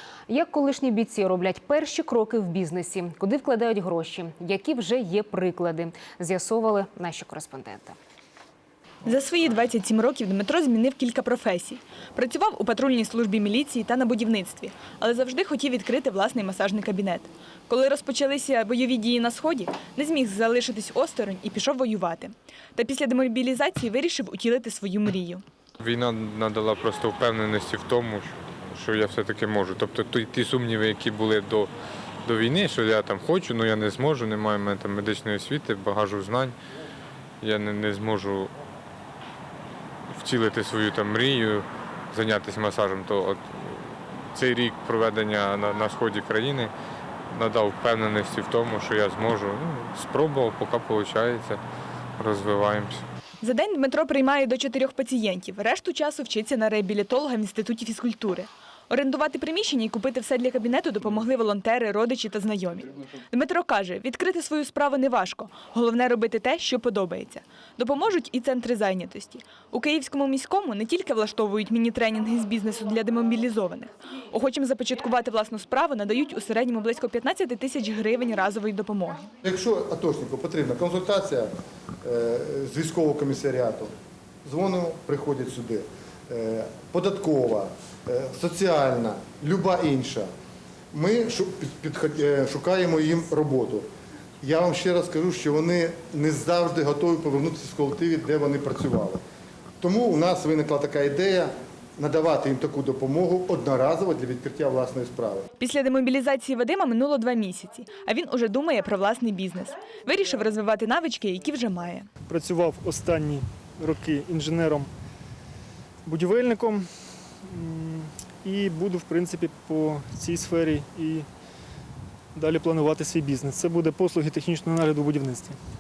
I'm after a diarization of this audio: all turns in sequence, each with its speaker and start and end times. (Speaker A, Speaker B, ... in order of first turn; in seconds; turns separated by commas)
Speaker A: 0.3-8.0, Speaker B: 9.0-25.4, Speaker C: 25.8-31.7, Speaker C: 32.2-36.5, Speaker C: 37.4-38.5, Speaker C: 40.2-46.7, Speaker C: 47.3-51.6, Speaker C: 52.2-53.0, Speaker B: 53.4-79.3, Speaker D: 79.4-81.5, Speaker D: 82.0-83.9, Speaker D: 84.4-90.3, Speaker D: 90.9-93.9, Speaker D: 94.4-99.2, Speaker D: 99.8-105.5, Speaker B: 105.6-112.1, Speaker E: 112.2-114.9, Speaker E: 116.0-121.3, Speaker E: 122.3-125.6